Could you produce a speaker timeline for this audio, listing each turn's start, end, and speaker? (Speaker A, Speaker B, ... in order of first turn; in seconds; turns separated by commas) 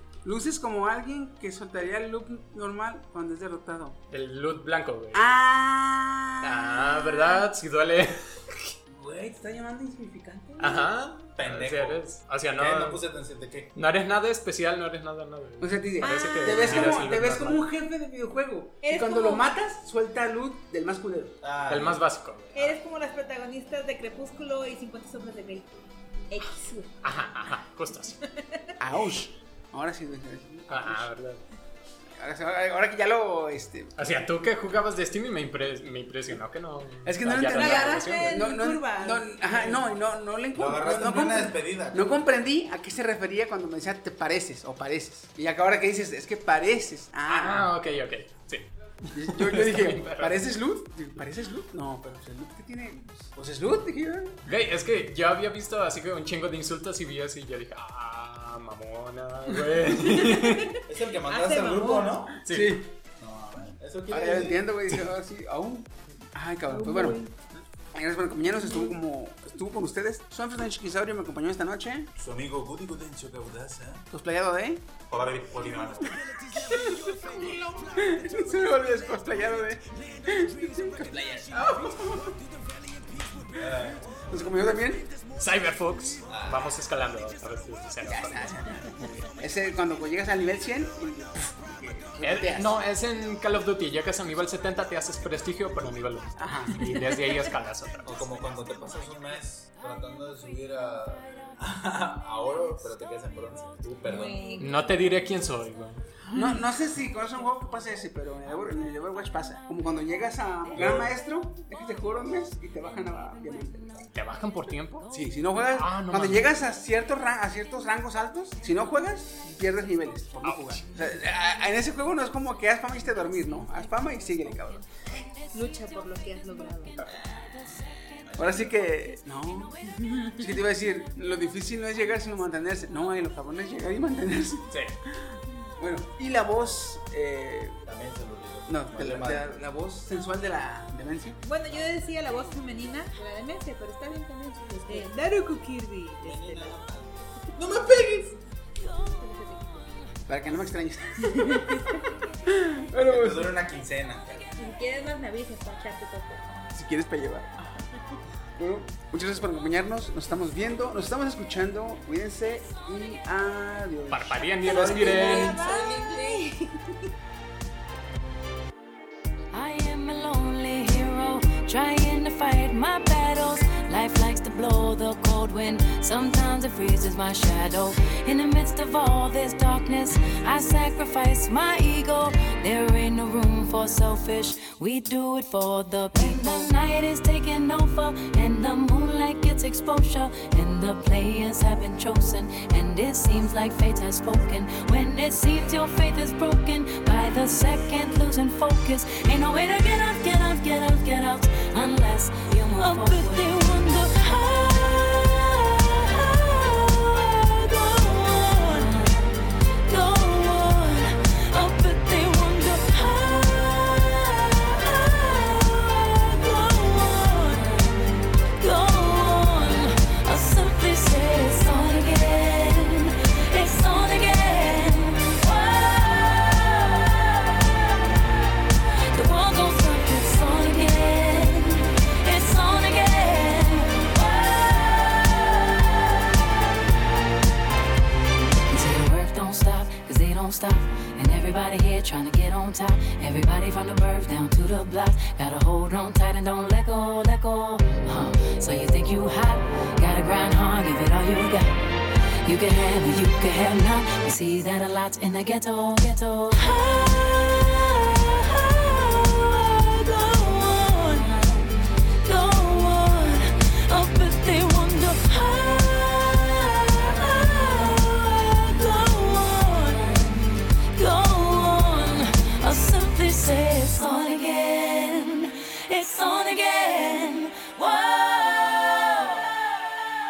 Speaker A: 0.2-4.0, Speaker B: 4.1-5.2, Speaker A: 5.1-7.1, Speaker B: 6.4-8.7, Speaker A: 8.9-10.9, Speaker B: 10.6-13.0, Speaker C: 11.4-13.7, Speaker B: 13.7-17.6, Speaker A: 15.6-21.4, Speaker D: 16.0-16.9, Speaker D: 18.8-19.5, Speaker C: 21.4-22.0, Speaker B: 21.7-22.8, Speaker D: 22.5-25.7, Speaker D: 26.3-26.9, Speaker B: 27.0-28.2, Speaker A: 28.8-31.1, Speaker B: 30.7-31.4, Speaker A: 32.2-33.9, Speaker B: 34.0-38.5, Speaker A: 37.0-47.7, Speaker D: 37.5-39.2, Speaker B: 39.5-39.8, Speaker C: 40.5-42.2, Speaker B: 47.3-50.4, Speaker A: 49.1-54.4, Speaker B: 54.5-60.7, Speaker D: 60.1-62.2, Speaker C: 60.9-62.4, Speaker B: 62.5-62.8, Speaker A: 62.5-62.9, Speaker C: 63.2-64.7, Speaker A: 64.1-67.2, Speaker D: 66.7-67.3, Speaker A: 67.9-72.1, Speaker D: 68.5-69.0, Speaker C: 72.2-74.0, Speaker A: 74.1-74.9, Speaker C: 75.1-77.7, Speaker A: 76.0-82.4, Speaker C: 83.5-84.2, Speaker A: 84.2-85.1, Speaker B: 85.3-88.8, Speaker C: 86.3-86.7, Speaker A: 88.0-92.8, Speaker B: 92.2-98.3, Speaker A: 96.4-96.9, Speaker D: 96.8-97.4, Speaker C: 98.0-104.5, Speaker D: 104.0-105.0, Speaker B: 104.6-106.6, Speaker A: 106.3-114.0, Speaker C: 110.7-111.2, Speaker B: 114.1-115.1, Speaker A: 115.1-124.9, Speaker B: 115.7-116.6, Speaker B: 120.4-120.9, Speaker D: 125.5-127.2, Speaker E: 127.1-128.0, Speaker C: 128.3-128.8, Speaker A: 128.4-129.8, Speaker D: 129.8-130.5, Speaker A: 130.4-137.8, Speaker C: 137.8-139.6, Speaker A: 138.7-141.4, Speaker D: 141.4-146.8, Speaker C: 146.2-148.3, Speaker D: 147.6-147.8, Speaker D: 149.2-149.8, Speaker A: 150.3-151.9, Speaker D: 151.2-152.1, Speaker A: 152.4-153.5, Speaker C: 153.0-154.5, Speaker D: 154.6-156.5, Speaker A: 156.7-157.7, Speaker A: 158.6-166.6, Speaker B: 164.1-165.7, Speaker D: 164.6-166.7, Speaker E: 169.5-228.2, Speaker D: 186.2-186.7, Speaker E: 229.1-236.2, Speaker E: 238.7-279.5